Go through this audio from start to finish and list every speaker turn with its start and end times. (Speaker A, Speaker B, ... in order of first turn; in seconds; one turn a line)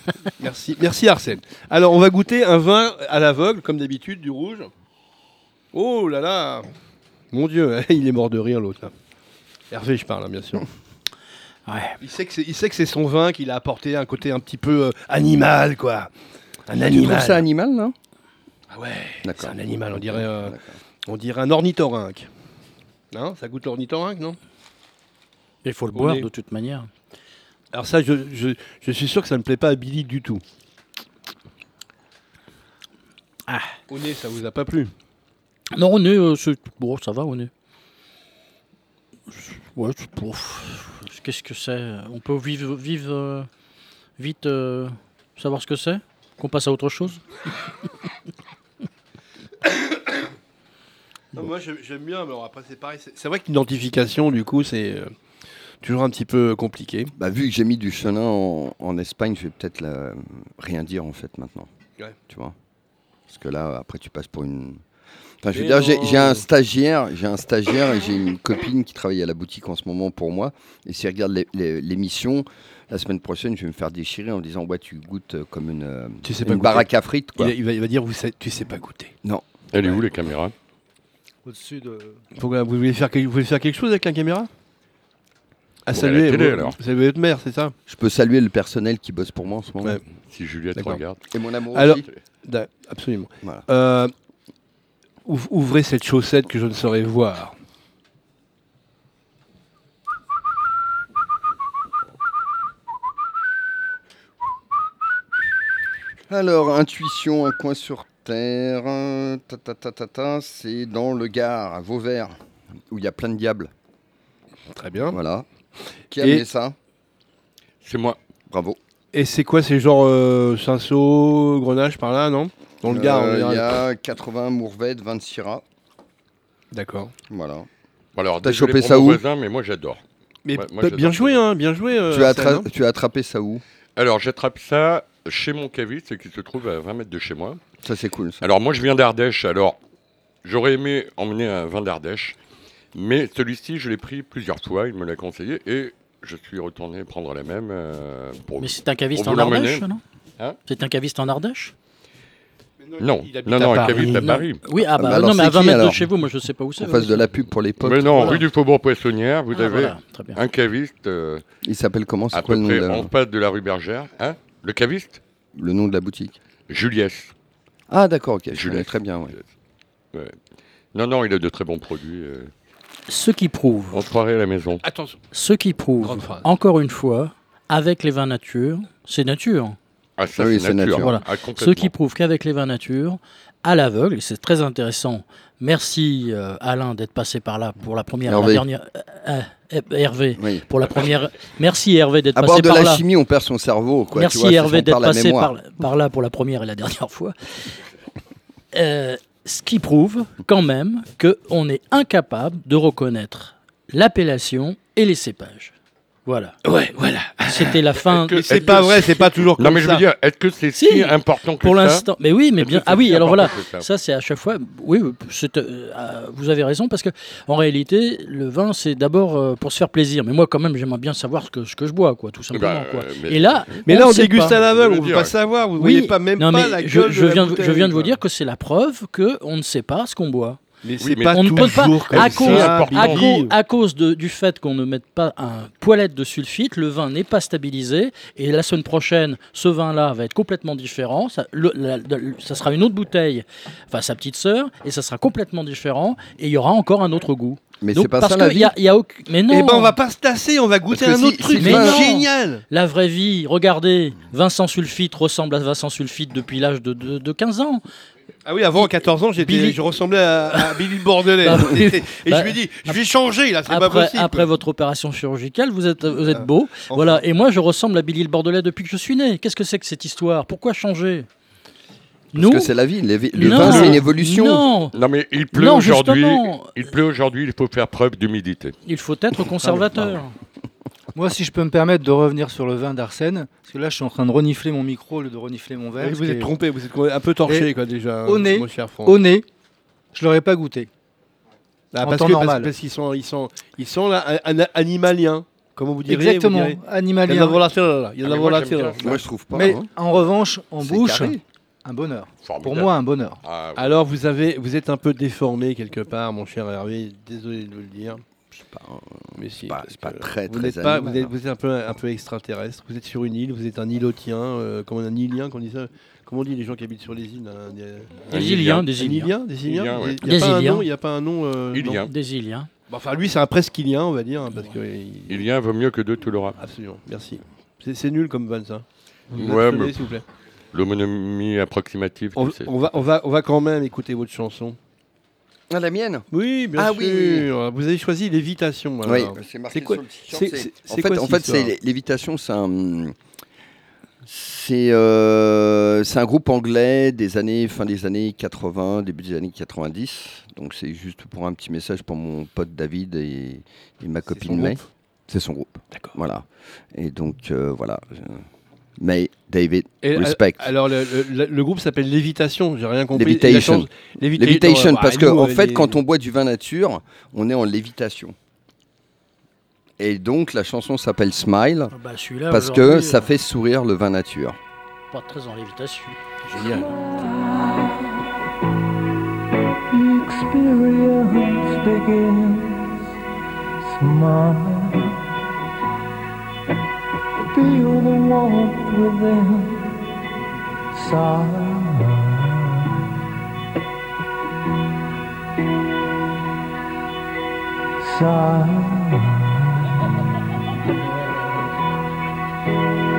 Speaker A: 0.4-4.7
Speaker A: 5.7-6.7
Speaker A: 7.3-8.9
Speaker A: 9.7-10.7
Speaker B: 11.7-12.0
Speaker A: 12.0-16.1
Speaker A: 16.7-17.4
Speaker C: 16.7-17.9
Speaker A: 18.7-20.6
Speaker C: 19.2-20.8
Speaker A: 21.1-22.3
Speaker A: 23.1-24.4
Speaker B: 25.6-26.9
Speaker A: 25.9-26.3
Speaker A: 27.7-30.4
Speaker B: 33.5-33.7
Speaker A: 33.9-34.9
Speaker B: 35.7-37.5
Speaker B: 39.3-43.5
Speaker B: 44.2-47.2
Speaker A: 49.6-50.2
Speaker A: 51.3-55.1
Speaker A: 55.8-57.1
Speaker C: 57.2-61.7
Speaker C: 62.3-62.5
Speaker C: 63.3-64.8
Speaker C: 65.4-77.5
Speaker A: 65.5-66.5
Speaker A: 76.2-79.1
Speaker D: 79.7-80.5
Speaker E: 81.4-82.2
Speaker A: 82.3-84.5
Speaker A: 85.8-87.7
Speaker D: 85.9-86.8
Speaker C: 87.9-90.0
Speaker D: 90.2-91.2
Speaker A: 90.8-91.0
Speaker C: 91.3-92.0
Speaker A: 91.7-94.1
Speaker A: 95.2-97.5
Speaker C: 106.3-112.3
Speaker C: 112.9-113.7
Speaker A: 114.7-115.2
Speaker C: 115.1-115.5
Speaker C: 116.1-116.8
Speaker A: 116.2-116.4
Speaker D: 117.8-118.2
Speaker C: 118.5-118.8
Speaker A: 119.1-123.8
Speaker C: 122.8-125.6
Speaker A: 126.7-127.1
Speaker C: 127.3-127.7
Speaker D: 128.2-130.0
Speaker C: 128.4-129.2
Speaker A: 130.4-132.7
Speaker D: 130.5-131.4
Speaker C: 132.1-133.6
Speaker D: 133.9-137.6
Speaker C: 137.8-138.4
Speaker D: 138.4-139.8
Speaker D: 140.4-142.4
Speaker D: 142.9-149.8
Speaker B: 148.6-150.0
Speaker B: 150.7-151.7
Speaker A: 152.8-154.3
Speaker D: 153.0-154.6
Speaker B: 153.7-157.2
Speaker C: 154.8-156.1
Speaker C: 156.8-158.4
Speaker D: 157.8-161.4
Speaker B: 158.2-158.4
Speaker B: 159.5-160.4
Speaker C: 161.6-163.1
Speaker D: 162.3-165.2
Speaker C: 165.5-166.4
Speaker D: 166.7-167.3
Speaker C: 167.9-169.3
Speaker D: 168.5-169.4
Speaker D: 170.9-172.5
Speaker B: 173.1-174.0
Speaker D: 173.9-174.8
Speaker A: 174.8-175.2
Speaker B: 175.3-179.8
Speaker A: 176.0-176.5
Speaker D: 180.2-181.9
Speaker C: 180.4-181.1
Speaker B: 181.0-193.0
Speaker C: 188.3-188.6
Speaker C: 190.4-190.7
Speaker C: 192.3-195.5
Speaker B: 194.1-197.6
Speaker B: 198.7-205.7
Speaker B: 206.2-206.6
Speaker A: 206.6-210.0
Speaker B: 207.4-209.1
Speaker D: 208.3-212.1
Speaker B: 210.8-224.6
Speaker D: 212.6-213.9
Speaker D: 222.5-223.8
Speaker A: 223.8-228.2
Speaker D: 224.4-225.3
Speaker B: 225.8-230.6
Speaker A: 230.8-233.5
Speaker D: 231.0-233.4
Speaker B: 231.3-249.9
Speaker C: 247.8-248.7
Speaker A: 249.5-252.6
Speaker C: 250.9-252.1
Speaker B: 251.6-257.8
Speaker A: 258.4-264.5
Speaker B: 259.4-259.8
Speaker B: 260.5-260.8
Speaker B: 261.4-263.0
Speaker B: 263.7-271.3
Speaker A: 266.2-267.2
Speaker B: 272.3-272.7
Speaker C: 272.3-274.6
Speaker B: 273.3-274.9
Speaker D: 273.5-274.0
Speaker D: 274.9-278.7
Speaker B: 275.5-276.8
Speaker B: 278.9-280.3
Speaker E: 281.1-286.5
Speaker A: 286.0-289.2
Speaker E: 287.4-287.7
Speaker E: 288.2-289.4
Speaker E: 290.1-290.9
Speaker A: 291.9-299.2
Speaker E: 292.0-292.7
Speaker E: 296.1-297.6
Speaker D: 298.2-299.1
Speaker C: 299.0-299.9
Speaker E: 299.5-303.4
Speaker C: 300.8-301.4
Speaker D: 302.4-304.0
Speaker A: 303.8-308.2
Speaker C: 308.5-311.3
Speaker A: 309.4-318.2
Speaker D: 318.3-318.9
Speaker B: 318.3-319.3
Speaker A: 318.9-322.0
Speaker D: 319.6-320.3
Speaker B: 320.2-320.9
Speaker D: 321.7-322.1
Speaker B: 321.8-322.7
Speaker A: 322.9-325.4
Speaker D: 325.3-326.6
Speaker A: 326.6-330.2
Speaker D: 329.3-330.0
Speaker D: 330.7-332.8
Speaker A: 332.4-334.8
Speaker C: 335.7-337.5
Speaker A: 336.3-341.7
Speaker C: 339.0-343.1
Speaker C: 344.2-358.4
Speaker A: 354.3-354.8
Speaker C: 359.0-360.7
Speaker A: 360.0-366.0
Speaker C: 363.1-368.3
Speaker C: 370.0-371.9
Speaker B: 371.9-373.3
Speaker C: 372.5-374.6
Speaker B: 375.1-376.2
Speaker A: 376.5-376.9
Speaker F: 379.9-382.7
Speaker F: 383.8-384.9
Speaker F: 387.5-389.8
Speaker F: 390.9-392.8
Speaker F: 398.0-399.5